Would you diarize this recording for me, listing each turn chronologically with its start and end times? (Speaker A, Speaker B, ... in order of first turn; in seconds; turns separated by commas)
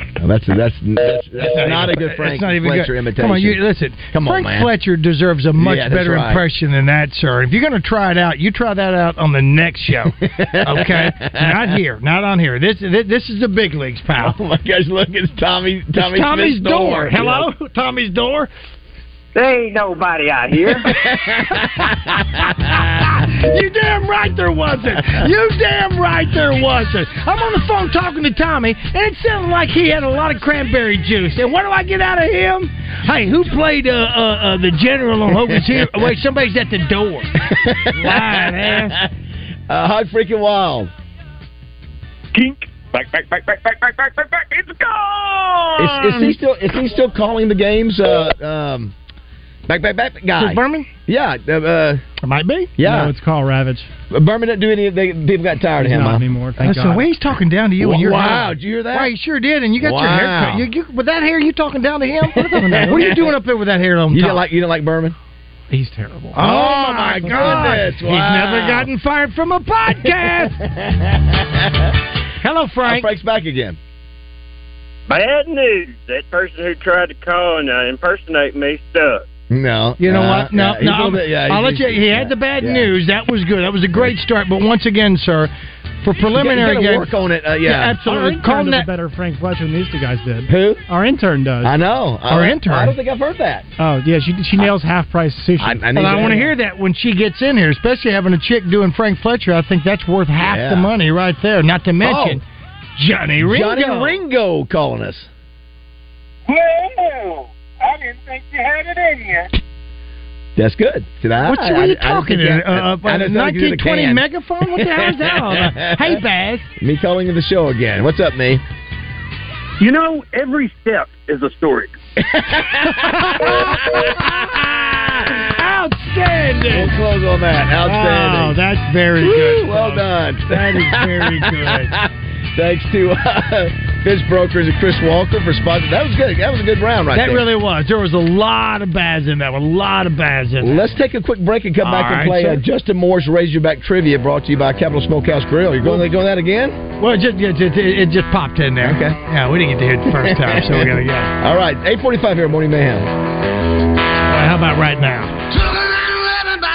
Speaker A: 0.2-3.6, Speaker B: 1.4-14.4, Speaker A: 4.1-4.7, Speaker A: 5.6-6.4, Speaker A: 10.2-11.8, Speaker A: 14.2-17.5, Speaker B: 16.0-18.5, Speaker A: 20.8-23.0, Speaker B: 22.6-37.3, Speaker A: 35.4-36.0, Speaker A: 37.4-39.1, Speaker B: 37.9-39.0, Speaker A: 39.7-40.9, Speaker C: 42.4-46.3, Speaker A: 45.8-48.9, Speaker A: 49.7-52.0, Speaker B: 50.4-50.9, Speaker B: 52.2-52.7, Speaker A: 52.8-53.1, Speaker D: 52.8-53.9, Speaker A: 54.1-56.3, Speaker D: 55.8-57.0, Speaker B: 56.6-64.4, Speaker A: 57.8-59.1, Speaker A: 59.8-60.7, Speaker A: 62.3-63.3, Speaker A: 64.1-65.2, Speaker D: 65.7-66.4, Speaker B: 66.3-70.5, Speaker A: 66.4-68.9, Speaker D: 67.3-67.7, Speaker A: 70.0-71.9, Speaker B: 72.4-73.1, Speaker A: 72.8-73.8, Speaker C: 75.1-79.2, Speaker A: 79.5-82.9, Speaker B: 80.0-87.1, Speaker A: 86.3-88.0, Speaker B: 87.6-88.9, Speaker D: 88.0-91.8, Speaker A: 90.5-90.8, Speaker A: 91.6-93.7, Speaker B: 92.3-93.0, Speaker D: 93.8-96.5, Speaker A: 95.6-96.5, Speaker B: 95.9-102.4, Speaker A: 100.4-100.9, Speaker A: 102.0-102.4, Speaker B: 103.0-104.2, Speaker A: 103.4-105.3, Speaker E: 106.5-109.5, Speaker A: 110.6-116.2, Speaker B: 111.4-116.7, Speaker A: 116.8-118.6, Speaker C: 119.8-121.9, Speaker A: 122.2-125.1, Speaker B: 123.0-124.4, Speaker B: 125.5-126.9, Speaker A: 126.7-128.6, Speaker B: 127.8-132.0, Speaker A: 129.2-137.5, Speaker B: 137.1-140.9, Speaker A: 140.6-146.8, Speaker B: 141.8-142.6, Speaker B: 147.0-151.3, Speaker A: 148.8-149.2, Speaker A: 150.1-153.1, Speaker B: 154.3-155.4